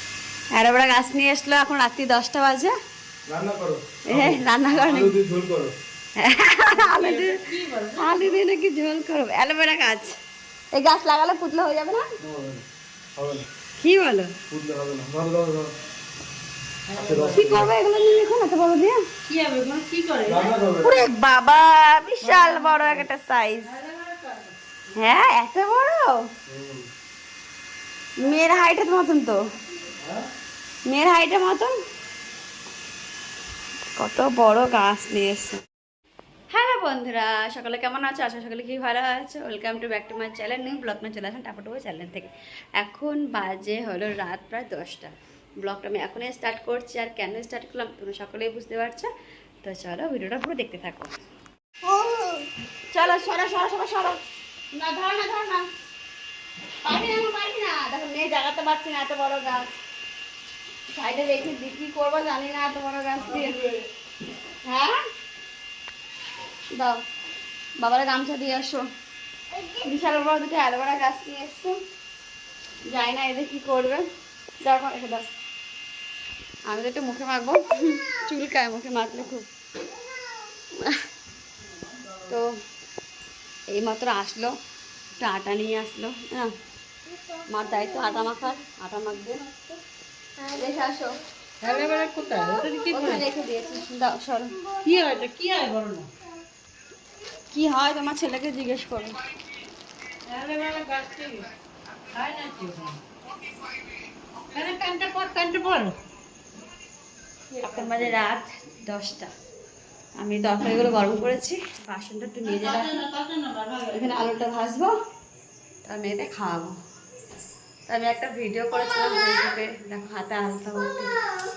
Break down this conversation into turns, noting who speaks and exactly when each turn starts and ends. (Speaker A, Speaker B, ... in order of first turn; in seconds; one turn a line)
Speaker A: 0.5-2.7
Speaker B: 3.3-5.7
Speaker A: 4.1-5.2
Speaker A: 6.2-7.4
Speaker C: 6.7-8.3
Speaker A: 8.0-10.1
Speaker A: 10.7-12.0
Speaker B: 12.2-12.6
Speaker B: 13.2-13.4
Speaker A: 13.8-14.3
Speaker B: 14.5-15.7
Speaker C: 16.9-17.5
Speaker B: 16.9-17.7
Speaker A: 17.3-19.0
Speaker C: 19.3-20.6
Speaker B: 20.2-21.1
Speaker A: 20.8-23.7
Speaker C: 22.2-23.1
Speaker C: 23.6-24.6
Speaker A: 24.9-26.2
Speaker B: 26.5-26.9
Speaker A: 28.2-29.4
Speaker B: 30.0-30.3
Speaker A: 30.9-31.8
Speaker A: 34.0-35.6
Speaker A: 36.5-49.1
Speaker A: 49.6-51.1
Speaker A: 51.9-54.2
Speaker A: 54.7-55.7
Speaker A: 56.8-59.8
Speaker A: 60.9-63.6
Speaker B: 63.3-63.6
Speaker A: 64.6-65.0
Speaker A: 66.7-67.0
Speaker A: 67.8-68.8
Speaker A: 69.6-71.8
Speaker A: 72.9-74.0
Speaker A: 74.6-75.2
Speaker A: 76.7-79.5
Speaker A: 83.7-84.5
Speaker A: 85.2-86.5
Speaker A: 87.5-89.7
Speaker A: 90.5-91.2
Speaker C: 91.6-93.2
Speaker A: 92.9-94.6
Speaker C: 94.8-96.1
Speaker A: 97.5-99.2
Speaker C: 100.2-101.5
Speaker C: 102.1-103.0
Speaker C: 104.5-106.0
Speaker C: 107.5-108.2
Speaker A: 107.6-109.3
Speaker A: 110.2-112.9
Speaker C: 112.4-114.2
Speaker A: 113.9-114.9
Speaker A: 115.8-116.8
Speaker A: 117.9-121.2